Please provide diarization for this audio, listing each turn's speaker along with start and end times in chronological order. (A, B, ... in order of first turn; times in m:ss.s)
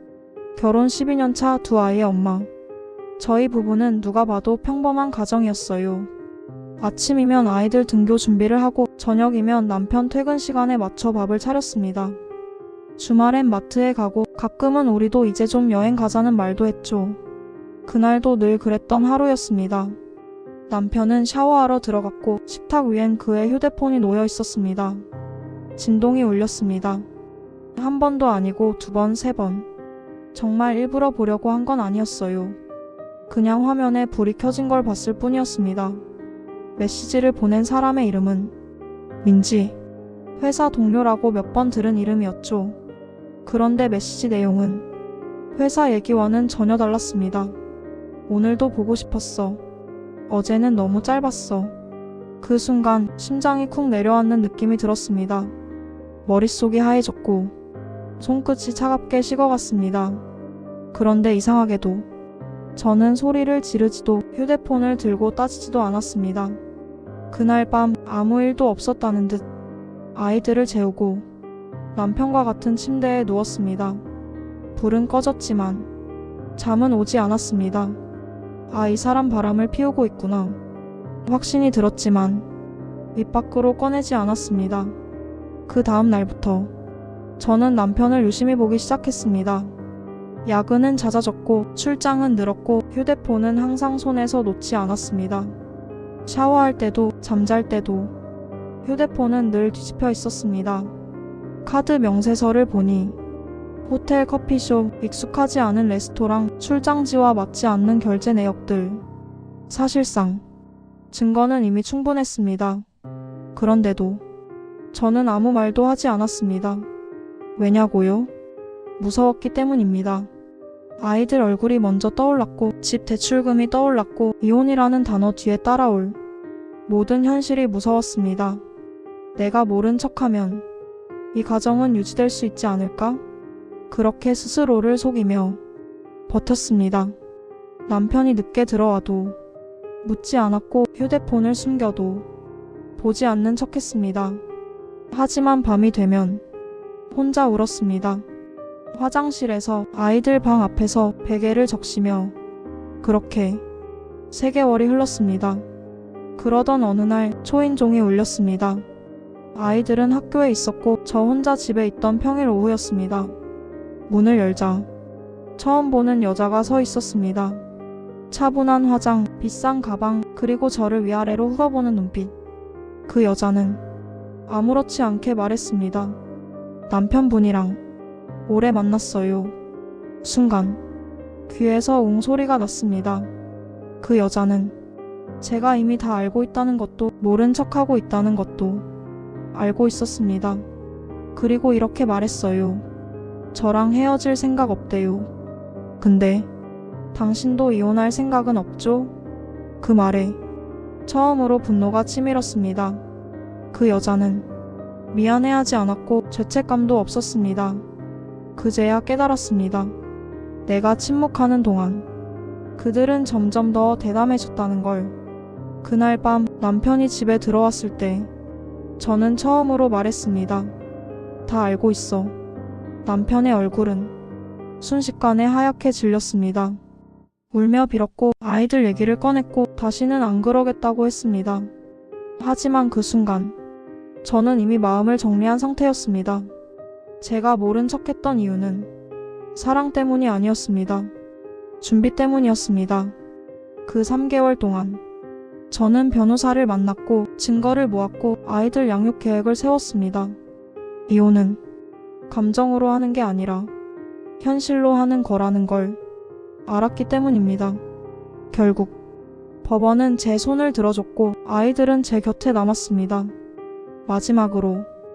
0:00.6-0:02.5 A
0:03.2-0:06.1 A
0:06.8-0:12.2 A
0:13.0-0:17.2 A
0:17.9-0:20.0 A
0:20.7-0:25.0 A
0:25.8-0:27.1 A
0:27.8-0:29.7 A
0:30.3-0:32.6 A
0:33.3-0:36.0 A
0:36.8-0:38.5 A
0:39.2-0:39.8 A
0:40.4-0:42.8 A
0:43.5-0:44.8 A
0:45.6-0:47.6 A
0:48.3-0:49.6 A
0:50.3-0:51.7 A
0:52.4-0:55.5 A
0:56.3-0:57.5 A
0:58.2-1:00.2 A
1:00.9-1:02.1 A
1:02.8-1:06.6 A
1:07.3-1:09.4 A
1:10.2-1:11.3 A
1:12.0-1:14.0 A
1:14.8-1:15.9 A
1:16.6-1:18.0 A
1:18.7-1:20.6 A
1:21.3-1:22.4 A
1:23.2-1:24.9 A
1:25.7-1:26.7 A
1:27.4-1:29.7 A
1:30.4-1:35.5 A
1:36.3-1:38.1 A
1:38.8-1:40.9 A
1:41.6-1:43.2 A
1:43.9-1:49.0 A
1:49.7-1:50.4 A
1:51.1-1:52.9 A
1:53.5-1:54.2 A
1:54.9-1:56.9 A
1:57.6-1:58.3 A
1:59.0-2:00.3 A
2:01.0-2:06.2 A
2:06.9-2:08.6 A
2:09.4-2:10.6 A
2:11.3-2:13.2 A
2:13.9-2:15.6 A
2:16.3-2:17.2 A
2:17.9-2:19.4 A
2:20.0-2:22.3 A
2:23.0-2:24.4 A
2:25.1-2:26.4 A
2:27.1-2:28.2 A
2:28.9-2:32.4 A
2:33.0-2:33.6 A
2:34.3-2:35.6 A
2:36.4-2:38.8 A
2:39.5-2:43.3 A
2:44.1-2:44.9 A
2:45.6-2:47.6 A
2:48.3-2:52.3 A
2:53.1-2:53.8 A
2:54.5-2:56.2 A
2:56.9-2:57.8 A
2:58.5-2:59.6 A
3:00.2-3:00.8 A
3:01.5-3:03.3 A
3:04.0-3:04.8 A
3:05.4-3:08.8 A
3:09.5-3:10.6 A
3:11.4-3:12.8 A
3:13.5-3:15.3 A
3:16.0-3:16.5 A
3:17.1-3:19.1 A
3:19.8-3:20.4 A
3:21.1-3:23.0 A
3:23.7-3:24.5 A
3:25.1-3:27.8 A
3:28.6-3:29.9 A
3:30.7-3:32.0 A
3:32.8-3:35.2 A
3:35.8-3:38.3 A
3:39.0-3:40.7 A
3:41.5-3:42.3 A
3:43.0-3:44.1 A
3:44.8-3:46.8 A
3:47.5-3:51.7 A
3:52.4-3:53.6 A
3:54.2-3:56.5 A
3:57.2-3:58.9 A
3:59.6-4:01.1 A
4:01.8-4:03.2 A
4:03.9-4:05.0 A
4:05.7-4:10.4 A
4:11.1-4:11.6 A
4:12.3-4:13.7 A
4:14.4-4:16.0 A
4:16.7-4:17.8 A
4:18.5-4:19.0 A
4:19.6-4:23.3 A
4:24.1-4:24.9 A